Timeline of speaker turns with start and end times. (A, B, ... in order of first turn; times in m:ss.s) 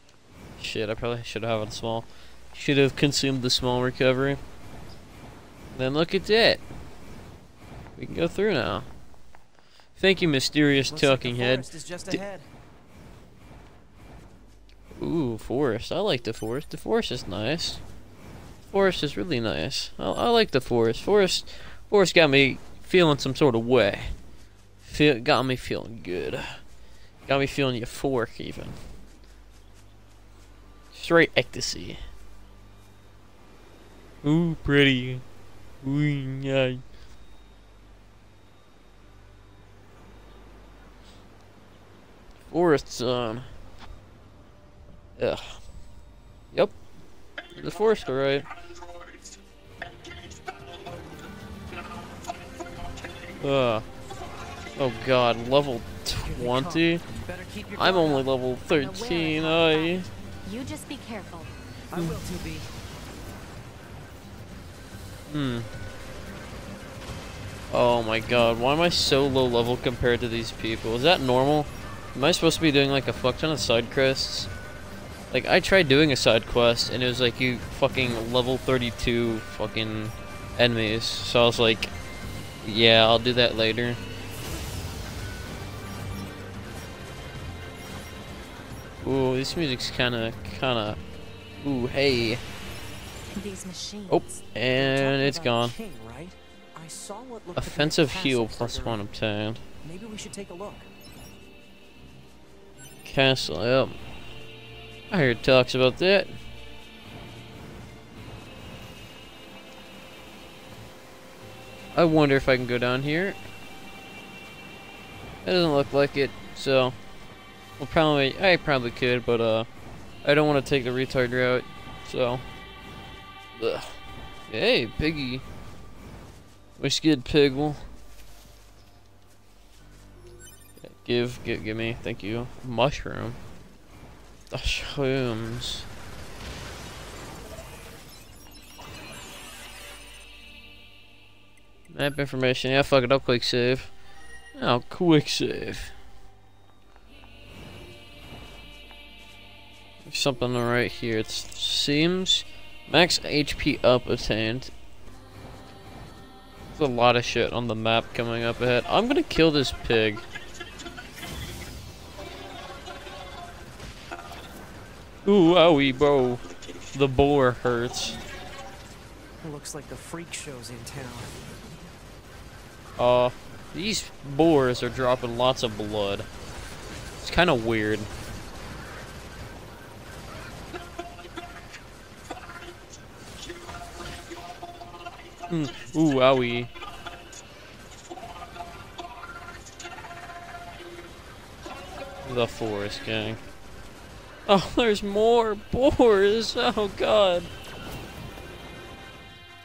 0:00.6-0:04.4 A
0:05.7-0:06.6 A
0:08.0-0:08.9 A
0:10.0-0:12.2 A
0:10.9-0:12.5 B
0:14.9-0:17.8 A
0:18.7-0:24.1 A
0:24.8-0:26.6 A
0:27.3-0:28.8 A
0:30.9-0:32.0 A
0:34.2-0:35.2 A
0:35.8-0:36.8 A
0:42.5-0:43.5 A
0:45.2-0:45.6 A
0:47.5-0:48.5 A
0:53.4-0:53.8 A
0:54.8-0:57.0 A
0:56.2-0:58.3 B
0:57.8-1:00.1 A
0:58.6-1:01.5 C
1:01.9-1:02.7 B
1:05.3-1:05.7 A
1:07.7-1:14.5 A
1:15.3-1:21.9 A
1:22.6-1:24.0 A
1:29.0-1:31.0 A
1:31.6-1:32.4 A
1:33.3-1:34.4 C
1:34.1-1:35.7 A
1:34.7-1:39.0 B
1:37.6-1:39.6 A
1:39.8-1:40.9 B
1:43.0-1:43.9 A
1:45.1-1:46.4 A
1:51.9-1:53.4 A
1:55.4-1:57.0 A
1:57.8-1:59.7 A
2:00.2-2:02.4 A
2:03.6-2:05.4 A
2:06.8-2:07.8 A
2:10.8-2:13.4 A
2:14.5-2:15.8 A
2:21.9-2:23.9 A
2:24.5-2:25.9 A
2:30.0-2:34.7 A
2:36.7-2:40.2 A
2:45.2-2:46.4 A
2:46.9-2:48.2 A
2:49.4-2:51.4 B
2:53.0-2:56.3 A
2:57.2-2:58.1 A
3:05.5-3:06.7 A
3:12.2-3:13.4 A
3:14.5-3:17.5 A